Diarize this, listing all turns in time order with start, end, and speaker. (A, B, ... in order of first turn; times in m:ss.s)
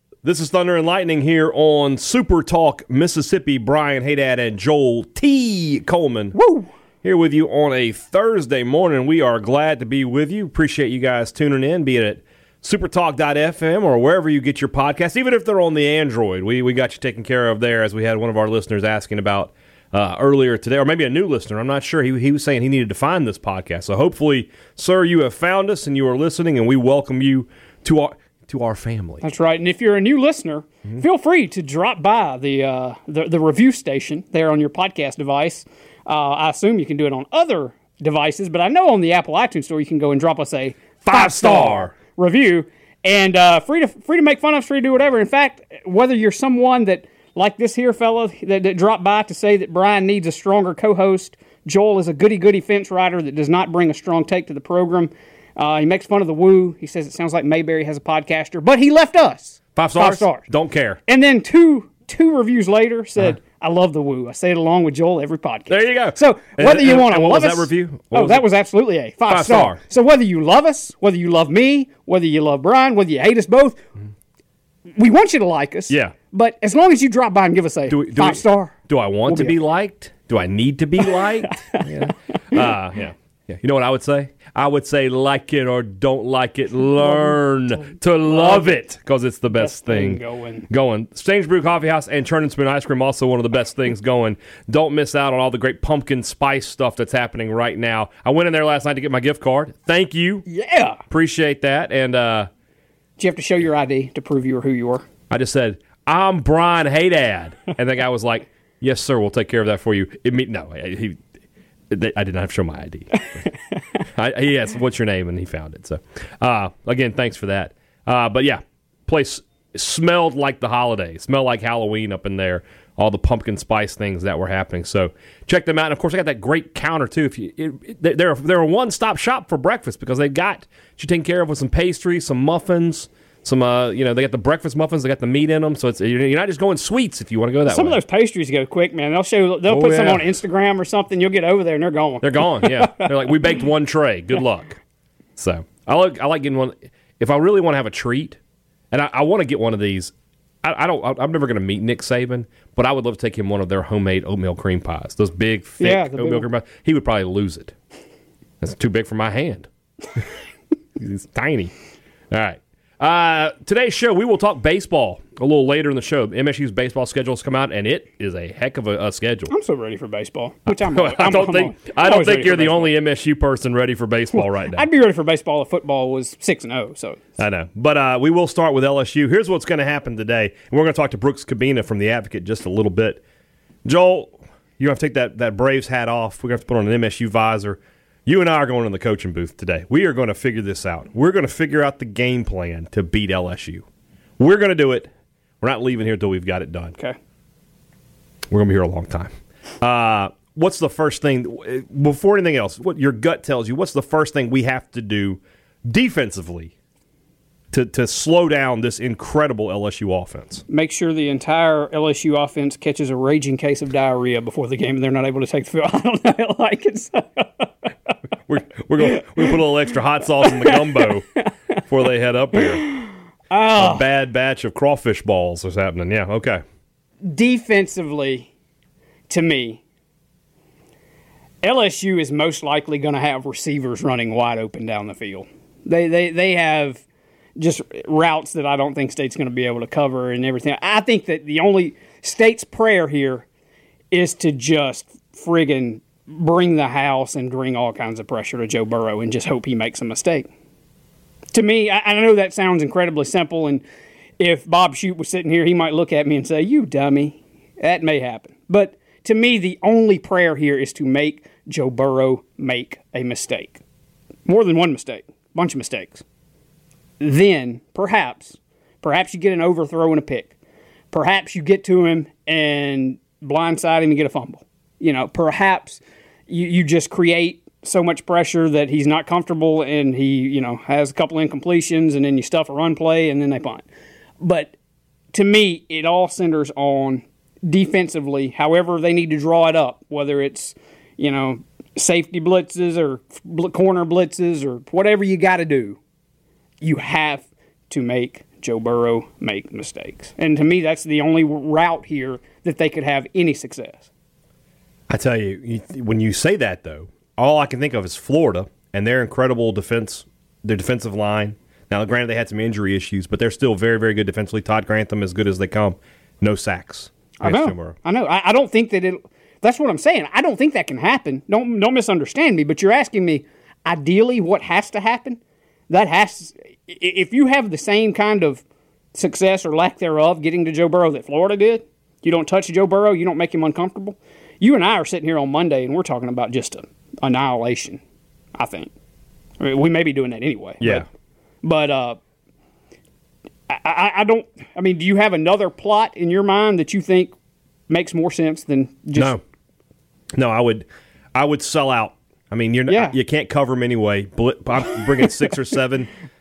0:00.2-0:06.4 A
0:06.3-0:06.7 B
0:07.0-0:29.2 A
0:29.2-1:00.4 B
0:41.0-0:41.9 A
0:59.8-1:01.0 A
1:01.1-1:13.8 B
1:05.7-1:08.4 A
1:09.3-1:09.8 A
1:15.0-1:19.6 B
1:15.9-1:16.1 A
1:17.9-1:40.4 A
1:21.0-1:21.9 B
1:27.0-1:27.4 B
1:28.3-1:28.8 B
1:29.6-1:30.7 B
1:40.4-1:41.0 B
1:41.1-1:42.5 A
1:43.2-1:45.0 B
1:45.3-1:51.2 A
1:51.9-1:53.5 A
1:54.0-2:18.0 A
2:17.7-2:23.6 B
2:19.7-2:20.4 A
2:22.2-2:24.8 A
2:25.4-2:28.4 A
2:28.9-2:37.7 A
2:35.8-2:36.5 B
2:38.6-2:40.2 A
2:41.0-2:41.7 A
2:42.3-2:49.5 A
2:49.5-2:52.9 B
2:50.7-2:54.9 A
2:54.3-2:57.2 B
2:57.4-3:03.2 A
3:03.9-3:13.8 A
3:14.4-3:15.1 A
3:15.6-3:17.0 A
3:18.5-3:26.7 A
3:27.7-3:30.6 A
3:30.7-3:37.7 B
3:38.5-3:41.3 A
3:39.0-3:39.6 B
3:40.4-3:41.5 B
3:41.9-3:42.9 A
3:42.6-3:44.0 B
3:43.8-3:46.6 A
3:47.2-3:48.5 B
3:49.3-3:49.8 B
3:51.6-3:57.0 B
3:57.6-4:03.5 B
4:04.1-4:10.5 B
4:11.5-4:13.8 B
4:14.4-4:23.8 B
4:24.4-4:26.2 B
4:27.2-4:30.5 B
4:31.1-4:43.8 B
4:44.4-4:44.8 B
4:45.3-4:56.0 B
4:56.8-5:04.1 B
5:05.1-5:18.0 A
5:17.4-5:28.6 B
5:29.1-5:38.0 B
5:38.6-5:38.9 B
5:39.6-5:41.1 B
5:40.8-5:41.1 A
5:41.6-5:42.2 B
5:43.7-5:47.3 B
5:47.9-5:49.4 B
5:49.2-5:49.4 A
5:50.3-5:56.1 A
5:52.9-5:53.2 B